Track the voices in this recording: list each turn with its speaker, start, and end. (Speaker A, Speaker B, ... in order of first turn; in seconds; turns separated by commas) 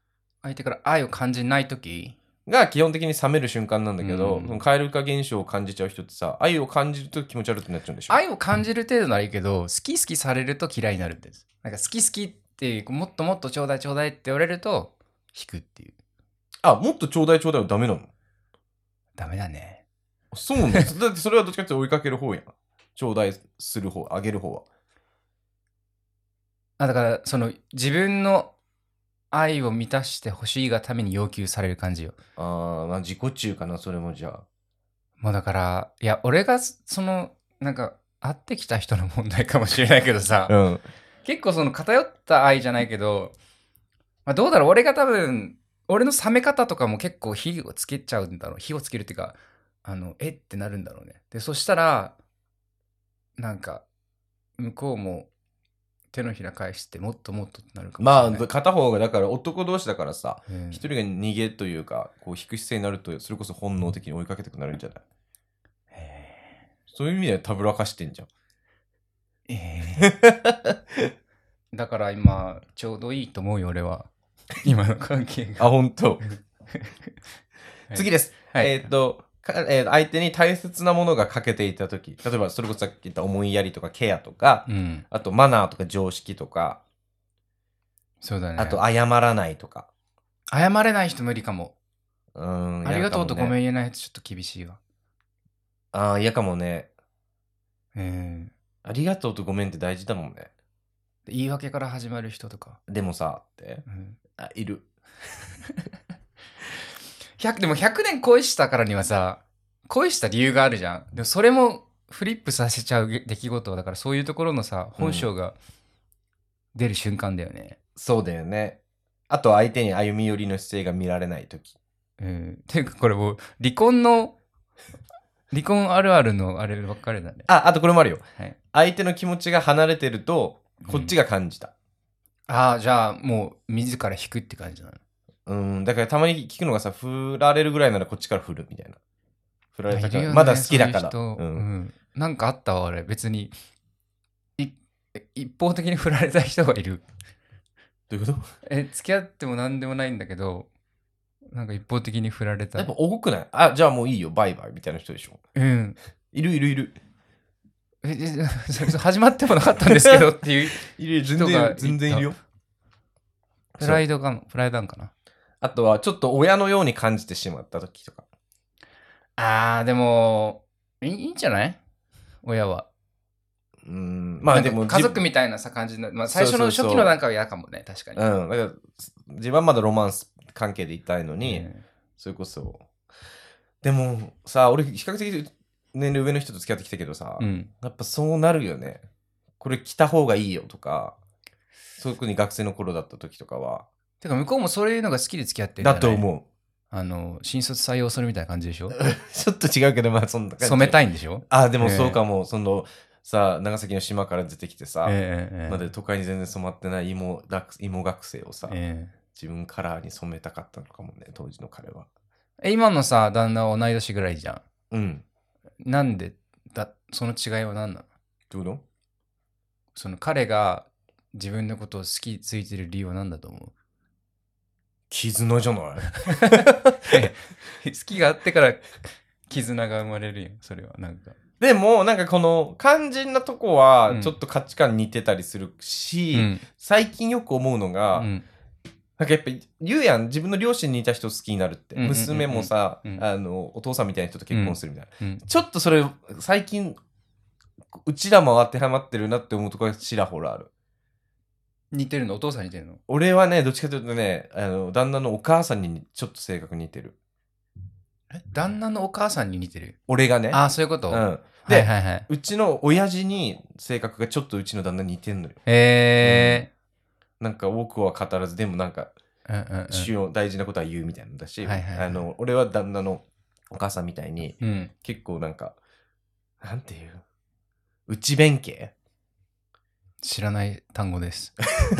Speaker A: 0.4-2.2, Speaker B: 2.5-8.2, Speaker A: 4.0-4.6, Speaker A: 8.1-15.9, Speaker B: 16.6-18.1, Speaker A: 19.2-19.8, Speaker B: 20.3-24.6, Speaker A: 26.8-28.5, Speaker A: 29.3-32.1, Speaker B: 32.4-34.4, Speaker A: 35.2-40.5, Speaker B: 40.5-40.8, Speaker A: 41.2-43.3, Speaker A: 44.2-52.1, Speaker A: 53.4-53.8, Speaker A: 54.6-55.3, Speaker A: 56.1-58.5, Speaker B: 58.0-65.0, Speaker A: 60.5-60.8, Speaker A: 65.9-66.6, Speaker B: 66.9-68.3, Speaker A: 69.5-70.1, Speaker B: 70.0-71.1, Speaker A: 71.7-75.7, Speaker B: 75.6-76.2, Speaker A: 76.2-77.1, Speaker A: 77.9-78.8, Speaker B: 77.9-86.8, Speaker A: 84.7-85.0, Speaker A: 88.2-88.8, Speaker B: 88.6-89.9, Speaker A: 90.5-91.7, Speaker B: 92.3-93.5, Speaker A: 92.8-94.8, Speaker B: 95.9-96.9, Speaker A: 97.9-98.5, Speaker B: 98.8-100.5, Speaker A: 101.3-102.8, Speaker B: 102.9-104.9, Speaker A: 103.9-104.2, Speaker A: 107.4-115.5, Speaker B: 115.0-115.3, Speaker A: 116.7-117.8, Speaker B: 118.0-121.7, Speaker A: 122.2-124.3, Speaker A: 125.5-127.5, Speaker B: 127.5-131.7, Speaker A: 130.8-131.1, Speaker A: 132.5-135.0, Speaker B: 135.4-139.0, Speaker B: 139.7-141.7, Speaker A: 139.9-143.5, Speaker A: 144.6-147.0, Speaker B: 148.1-148.5, Speaker A: 148.6-150.7, Speaker A: 151.5-152.9, Speaker B: 152.8-155.4, Speaker A: 155.5-156.0, Speaker B: 156.3-156.9, Speaker A: 158.0-162.3, Speaker B: 159.9-160.2, Speaker B: 160.7-162.4, Speaker B: 163.8-164.0, Speaker A: 163.8-165.1, Speaker B: 165.6-168.2, Speaker A: 169.4-171.8, Speaker A: 172.4-172.9, Speaker B: 173.8-175.2, Speaker A: 174.5-178.2, Speaker B: 176.3-177.1, Speaker B: 178.2-181.7, Speaker A: 181.4-181.8, Speaker B: 182.2-182.8, Speaker B: 183.8-189.0, Speaker A: 187.4-187.7, Speaker B: 189.6-191.2, Speaker B: 192.0-193.8, Speaker A: 194.2-196.2, Speaker B: 195.8-196.4, Speaker A: 196.9-198.9, Speaker B: 198.9-201.0, Speaker A: 200.6-202.2, Speaker B: 201.5-205.2, Speaker A: 205.0-205.8, Speaker B: 205.7-208.7, Speaker A: 208.7-209.1, Speaker B: 209.3-212.1, Speaker A: 212.6-214.6, Speaker B: 214.9-215.2, Speaker A: 215.8-218.1, Speaker B: 218.5-218.8, Speaker A: 219.9-223.7, Speaker B: 225.1-227.2, Speaker A: 226.2-231.3, Speaker B: 231.6-238.3, Speaker A: 234.1-234.3, Speaker A: 236.3-236.6, Speaker A: 238.1-238.4, Speaker B: 239.2-247.0, Speaker A: 241.9-243.2, Speaker A: 244.5-245.4, Speaker B: 247.9-250.7, Speaker A: 251.9-253.0, Speaker B: 253.1-257.1, Speaker A: 258.3-260.0, Speaker B: 260.1-265.6, Speaker A: 260.5-262.3, Speaker A: 265.6-266.7, Speaker B: 266.2-266.6, Speaker B: 267.4-269.1, Speaker A: 269.5-270.1, Speaker B: 269.9-275.8, Speaker A: 271.6-272.2, Speaker A: 274.6-274.9, Speaker B: 276.6-277.2, Speaker B: 278.1-278.9, Speaker A: 280.2-281.6